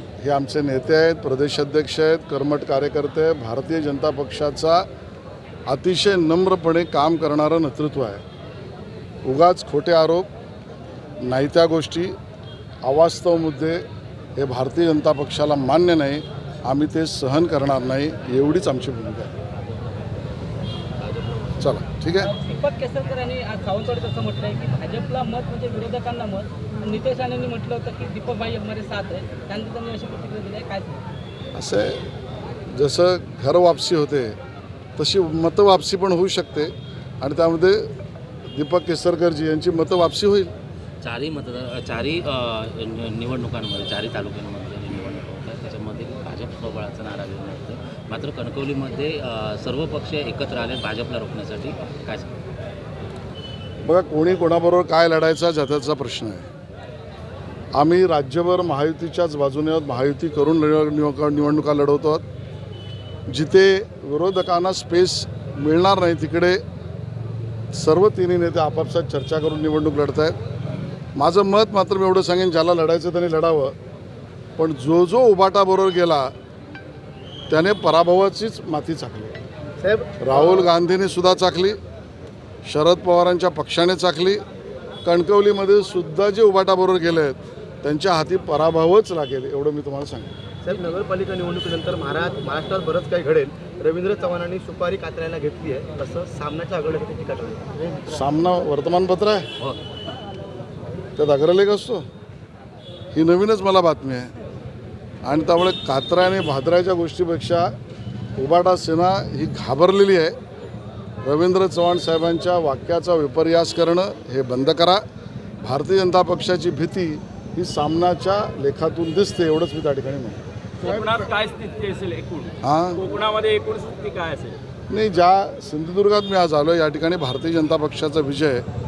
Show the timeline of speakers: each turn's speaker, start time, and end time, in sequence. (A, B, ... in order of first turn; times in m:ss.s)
0:00.2-0:04.9 A
0:05.7-0:08.2 A
0:09.2-0:10.3 A
0:11.2-0:12.2 A
0:12.8-0:13.8 A
0:14.4-0:19.4 A
0:21.6-0:22.3 A
0:22.2-0:31.0 B
0:31.5-0:32.1 A
0:32.7-0:34.4 A
0:35.0-0:37.9 A
0:38.5-0:40.5 A
0:41.0-0:52.3 C
0:53.8-0:56.5 A
0:57.7-1:02.2 A
1:03.3-1:06.6 A
1:07.7-1:10.4 A
1:11.2-1:13.8 A
1:14.6-1:16.3 A
1:17.5-1:19.4 A
1:19.8-1:20.7 D
1:20.2-1:21.8 A
1:22.6-1:24.4 A
1:25.0-1:30.3 A
1:30.6-1:37.9 D
1:38.1-1:39.5 A
1:41.2-1:42.0 A
1:43.1-1:44.3 A
1:45.2-1:47.7 A
1:48.4-1:50.4 A
1:51.2-1:55.0 A
1:55.6-2:00.4 A
2:00.8-2:04.6 E
2:02.6-2:03.0 A
2:04.9-2:08.6 A